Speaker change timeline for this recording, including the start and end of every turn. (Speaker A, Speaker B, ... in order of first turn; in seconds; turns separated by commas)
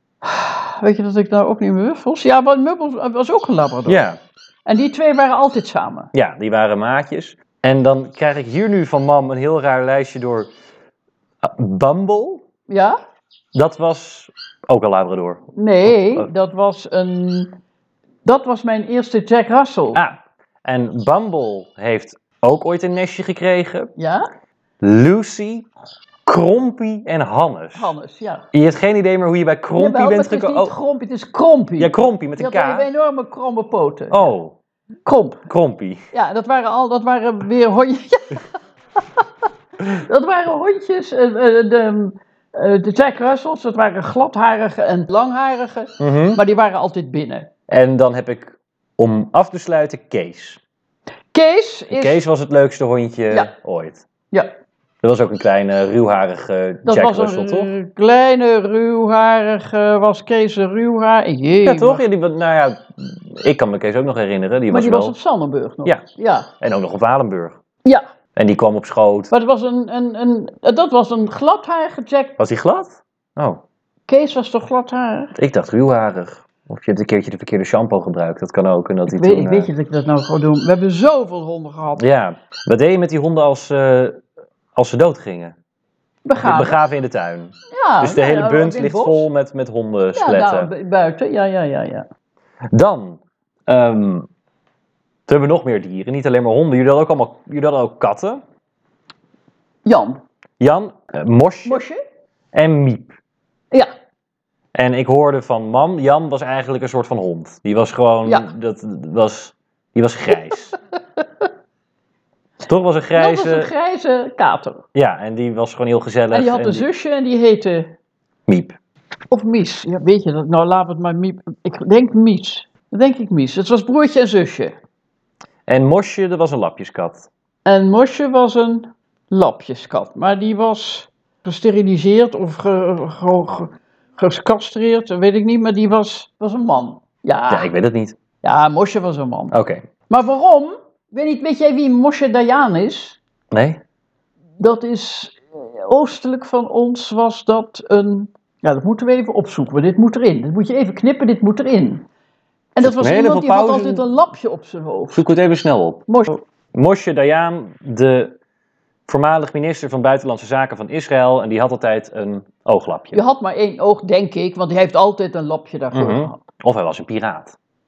Speaker A: 0.2-4.0, Speaker B: 3.9-4.2, Speaker A: 4.7-6.1, Speaker B: 6.1-10.5, Speaker B: 11.4-12.4, Speaker A: 12.7-13.0, Speaker B: 13.5-16.3, Speaker A: 15.5-17.6, Speaker A: 18.2-20.0, Speaker B: 19.9-23.9, Speaker A: 24.0-24.3, Speaker B: 24.8-25.7, Speaker B: 26.2-27.9, Speaker A: 27.7-28.4, Speaker B: 28.5-30.7, Speaker A: 29.8-34.2, Speaker B: 31.8-32.9, Speaker B: 34.1-34.5, Speaker A: 35.0-35.5, Speaker B: 35.5-36.0, Speaker A: 36.1-38.4, Speaker A: 39.8-47.5, Speaker B: 46.0-46.4, Speaker B: 47.7-50.6, Speaker A: 51.3-52.2, Speaker B: 51.9-54.0, Speaker B: 55.0-57.7, Speaker A: 56.8-62.0, Speaker B: 61.6-65.1, Speaker A: 64.7-66.5, Speaker B: 66.6-67.6, Speaker B: 68.3-69.3, Speaker A: 69.3-72.3, Speaker B: 72.4-73.6, Speaker A: 74.1-75.3, Speaker B: 75.3-79.7, Speaker A: 79.1-82.0, Speaker B: 82.0-84.2, Speaker B: 84.8-85.5, Speaker A: 86.2-86.8, Speaker B: 86.4-90.7, Speaker A: 87.7-89.3, Speaker A: 90.1-92.0, Speaker B: 92.7-94.3, Speaker B: 95.3-98.4, Speaker A: 99.8-100.2, Speaker B: 100.6-101.8, Speaker A: 101.6-102.0, Speaker B: 102.5-103.1, Speaker B: 104.7-110.8, Speaker B: 112.7-113.7, Speaker A: 113.1-114.8, Speaker B: 114.9-116.8, Speaker A: 116.3-117.9, Speaker B: 118.5-118.8, Speaker A: 119.3-124.7, Speaker B: 125.7-127.3, Speaker A: 127.7-137.7, Speaker B: 137.5-138.2, Speaker A: 138.4-139.6, Speaker B: 139.5-139.8, Speaker A: 140.1-143.2, Speaker B: 143.5-143.8, Speaker A: 144.6-152.1, Speaker A: 152.7-155.2, Speaker B: 152.8-154.0, Speaker B: 155.1-156.0, Speaker A: 156.1-156.4, Speaker B: 156.7-158.4, Speaker B: 159.1-163.2, Speaker A: 163.1-166.4, Speaker B: 165.9-167.6